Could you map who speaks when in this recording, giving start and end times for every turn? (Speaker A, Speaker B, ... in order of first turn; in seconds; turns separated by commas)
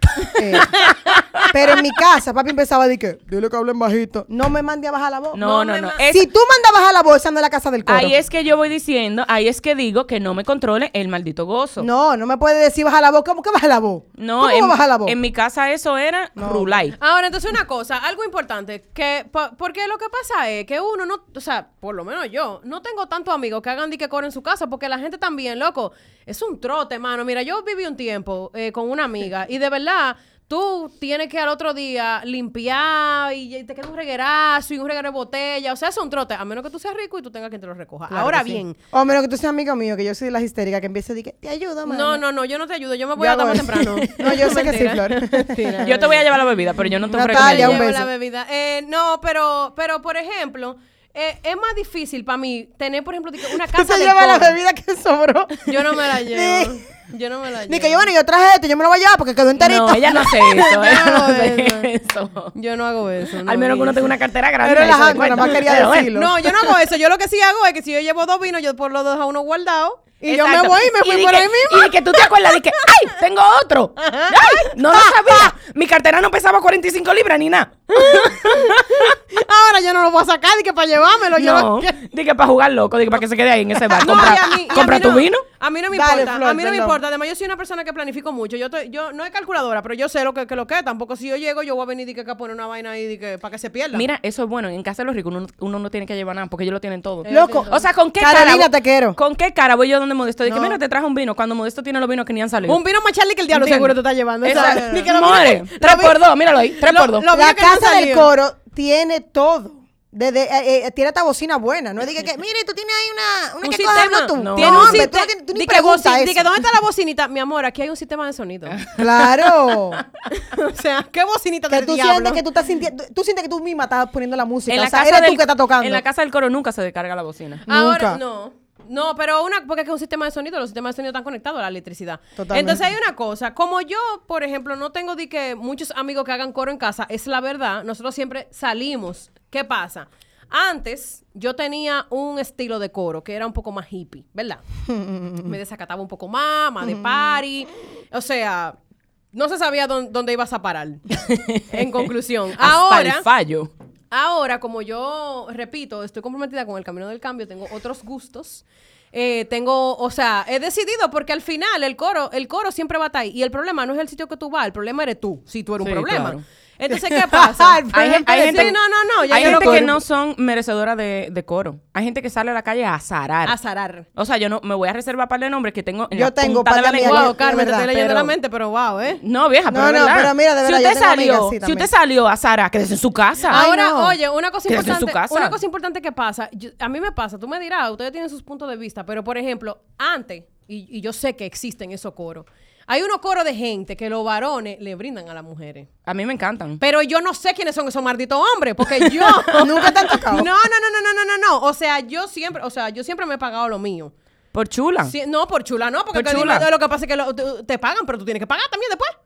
Speaker A: 0.3-5.4, Speaker B: 0.7-1.5, Speaker B: 5.3-6.2, Speaker C: 5.4-6.0, Speaker A: 6.1-8.2, Speaker B: 7.9-11.9, Speaker A: 11.8-15.1, Speaker B: 14.2-16.9, Speaker A: 16.4-16.8, Speaker C: 17.0-38.8, Speaker A: 38.1-42.2, Speaker C: 41.9-46.2, Speaker A: 43.2-46.0, Speaker B: 45.8-47.8, Speaker A: 47.0-48.1, Speaker C: 47.3-54.6, Speaker A: 53.5-56.8, Speaker C: 55.6-58.1, Speaker A: 57.7-60.6, Speaker B: 59.6-62.5, Speaker C: 60.6-61.9, Speaker C: 62.5-64.1, Speaker B: 63.4-66.3, Speaker A: 64.6-66.3, Speaker C: 66.1-72.9, Speaker B: 70.2-79.2, Speaker C: 74.0-75.1, Speaker C: 77.9-82.0, Speaker B: 81.4-85.4, Speaker C: 83.9-94.0, Speaker A: 85.9-87.0, Speaker B: 93.9-102.8, Speaker C: 97.2-97.8, Speaker A: 97.3-99.2, Speaker A: 100.4-100.8, Speaker C: 102.7-106.2, Speaker B: 103.5-107.3, Speaker A: 104.5-105.1, Speaker C: 106.8-108.3, Speaker A: 107.3-116.5, Speaker C: 113.6-118.8, Speaker B: 114.4-115.1, Speaker B: 118.7-120.2, Speaker A: 119.0-120.0, Speaker C: 120.3-122.4, Speaker A: 121.7-126.0, Speaker B: 124.7-127.6, Speaker C: 127.6-144.6, Speaker A: 127.7-128.2, Speaker A: 132.4-132.8, Speaker A: 144.9-145.5, Speaker C: 145.4-148.8, Speaker A: 146.8-147.3, Speaker C: 149.3-151.1, Speaker B: 151.1-153.7, Speaker C: 151.7-153.2, Speaker C: 154.1-170.0, Speaker B: 165.8-166.4, Speaker A: 166.9-170.0, Speaker B: 167.9-168.8, Speaker B: 169.3-173.6, Speaker C: 173.4-174.1, Speaker B: 174.2-178.3, Speaker A: 176.1-178.0, Speaker C: 177.0-179.2, Speaker B: 179.2-183.6, Speaker A: 179.7-181.9, Speaker A: 183.5-184.2, Speaker C: 183.5-195.9, Speaker B: 184.7-185.6, Speaker B: 196.1-196.8, Speaker C: 196.8-204.1, Speaker B: 199.0-199.5, Speaker A: 199.5-200.5, Speaker B: 204.5-205.1, Speaker C: 205.1-209.1, Speaker B: 206.1-206.7